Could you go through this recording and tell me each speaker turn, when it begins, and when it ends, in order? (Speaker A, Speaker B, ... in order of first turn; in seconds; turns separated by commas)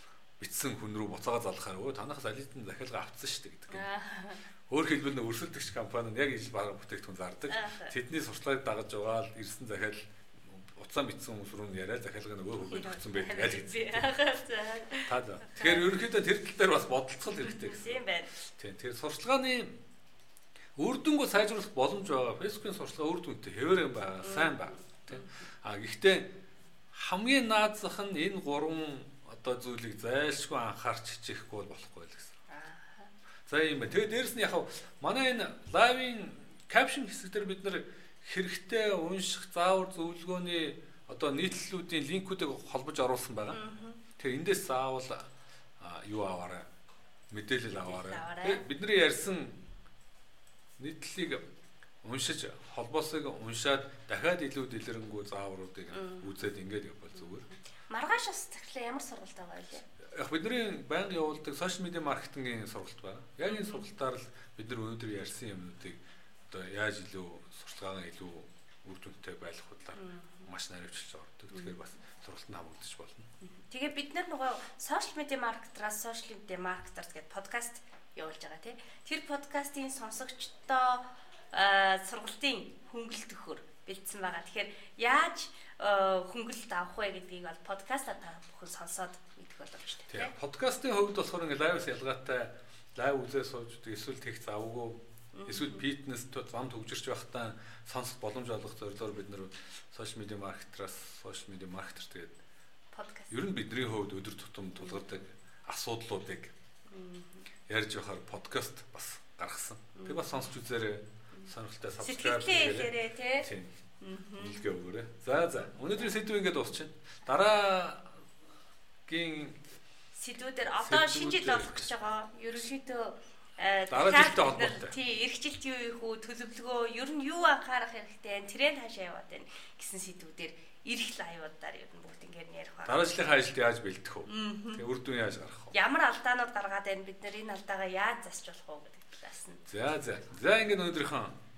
Speaker A: 0.4-3.9, Speaker B: 3.7-4.5, Speaker A: 4.7-14.0, Speaker B: 7.5-7.9, Speaker B: 12.6-15.9, Speaker A: 15.1-19.8, Speaker B: 17.4-18.3, Speaker A: 20.8-26.3, Speaker B: 24.2-25.4, Speaker A: 26.9-32.4, Speaker B: 32.5-33.1, Speaker A: 33.5-43.6, Speaker B: 43.5-44.0, Speaker A: 44.2-45.3, Speaker A: 45.8-46.7, Speaker A: 47.3-49.6, Speaker B: 47.7-48.6, Speaker A: 50.8-51.4, Speaker A: 52.0-57.5, Speaker B: 55.9-56.3, Speaker B: 57.9-59.9, Speaker A: 60.1-73.3, Speaker B: 63.5-63.9, Speaker B: 70.0-70.5, Speaker B: 73.6-90.3, Speaker A: 90.1-102.4, Speaker B: 95.3-95.8, Speaker B: 102.9-103.4, Speaker A: 103.3-106.5, Speaker B: 104.8-105.1, Speaker B: 106.9-107.5, Speaker A: 107.7-113.8, Speaker B: 110.0-110.5, Speaker B: 111.3-113.5, Speaker B: 114.0-114.6, Speaker A: 114.4-118.1, Speaker A: 119.1-119.6, Speaker B: 120.1-133.2, Speaker A: 120.8-121.9, Speaker A: 123.9-125.0, Speaker A: 132.8-135.8, Speaker B: 134.3-134.8, Speaker B: 135.7-139.6, Speaker A: 139.7-141.4